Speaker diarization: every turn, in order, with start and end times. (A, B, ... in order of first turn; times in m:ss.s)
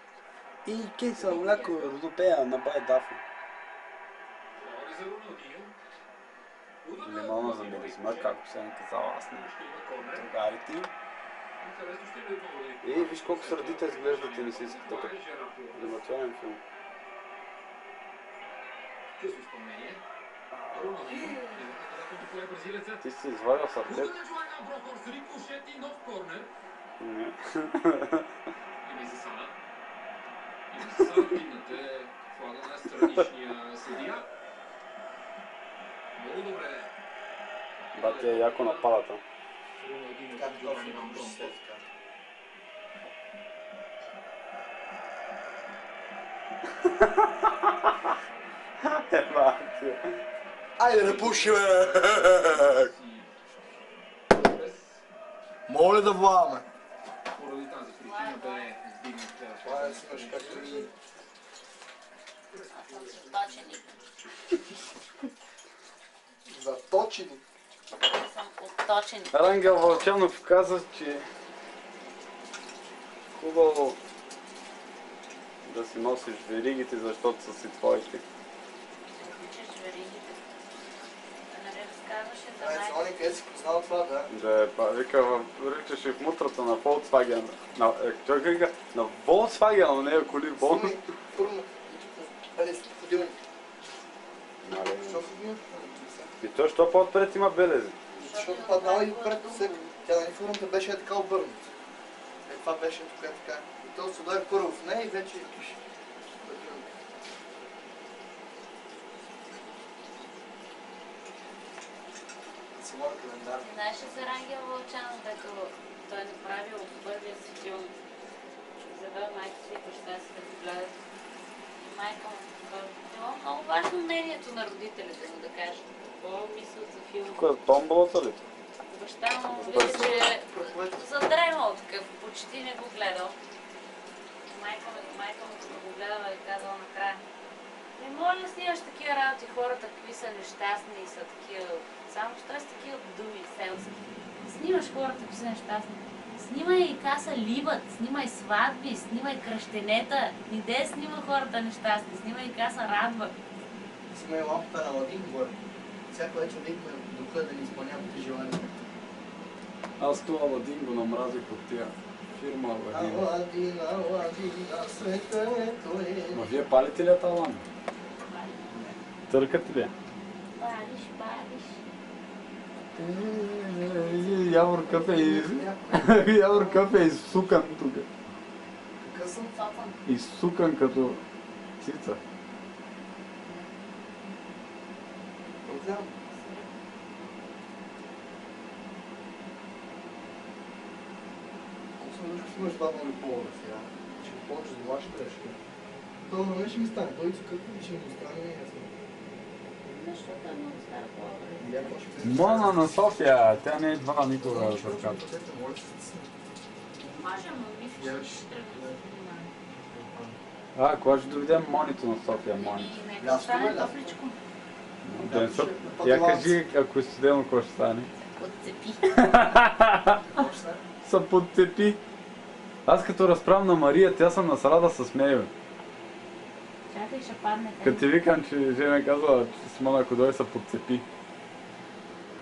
0:00.6-0:03.2 A
0:01.2-0:02.0 B
0:04.6-0:05.7 B
0:06.8-0:08.4 B
0:07.0-0:09.5 A
0:09.4-0:10.3 B
0:10.1-0:10.9 A
0:11.6-0:16.0 B
0:12.8-0:15.2 A
0:15.7-0:16.6 A
0:19.2-0:20.0 B
0:20.7-0:23.0 B
0:21.3-0:21.5 C
0:23.0-0:24.2 A
0:23.8-0:26.5 B
0:27.0-0:28.2 A
0:28.8-0:29.6 B
0:30.7-0:34.3 B
0:36.1-0:36.9 B
0:37.9-0:39.0 B
0:38.0-0:39.2 A
0:39.8-0:41.6 B
0:40.3-0:41.8 D
0:46.8-0:48.1 A
0:48.8-0:50.1 A
0:50.8-0:52.7 D
0:50.9-0:53.3 B
0:54.3-0:55.0 B
0:55.7-0:56.6 D
0:57.3-1:00.9 B
0:58.0-0:58.7 C
0:59.6-1:00.9 D
1:02.6-1:03.8 B
1:02.7-1:03.9 C
1:06.5-1:07.4 D
1:08.0-1:10.1 C
1:09.3-1:11.2 A
1:13.3-1:14.0 A
1:15.6-1:18.2 A
1:19.2-1:20.4 C
1:21.5-1:23.0 C
1:22.6-1:24.3 D
1:24.3-1:31.0 A
1:30.6-1:33.4 D
1:34.6-1:35.2 A
1:34.9-1:36.3 D
1:36.4-1:38.0 A
1:38.1-1:41.7 D
1:38.2-1:40.0 C
1:42.4-1:45.8 D
1:46.3-1:46.9 D
1:52.7-1:53.7 D
1:53.6-1:57.9 C
1:58.8-2:00.9 C
2:01.8-2:07.4 C
2:07.3-2:08.4 A
2:08.9-2:13.4 C
2:09.5-2:10.2 A
2:09.7-2:11.1 D
2:14.5-2:17.2 C
2:18.0-2:33.3 C
2:34.1-2:35.6 D
2:36.1-2:38.7 D
2:40.0-2:43.3 A
2:42.9-2:46.6 D
2:46.3-2:47.7 A
2:48.3-2:48.6 C
2:48.7-2:49.0 D
2:49.3-2:49.9 A
2:50.6-2:51.8 C
2:53.0-2:58.1 A
2:53.8-2:54.7 C
2:54.9-2:56.9 D
2:59.0-2:59.5 D
2:59.5-3:00.0 C
3:00.0-3:01.2 A
3:01.8-3:02.2 A
3:05.6-3:06.1 D
3:06.3-3:06.7 C
3:12.0-3:15.6 D
3:16.3-3:18.9 D
3:19.8-3:22.0 C
3:21.6-3:22.8 D
3:22.2-3:25.2 A
3:24.4-3:26.3 D
3:27.0-3:29.5 C
3:28.0-3:29.0 D
3:29.8-3:30.4 D
3:30.8-3:33.0 A
3:32.4-3:34.4 C
3:33.2-3:34.0 D
3:35.0-3:38.1 A
3:35.3-3:36.6 D
3:38.2-3:39.4 C
3:39.1-3:40.2 A
3:40.3-3:40.8 D
3:41.0-3:42.0 A
3:42.9-3:45.5 A
3:46.9-3:48.1 C
3:47.8-3:51.0 A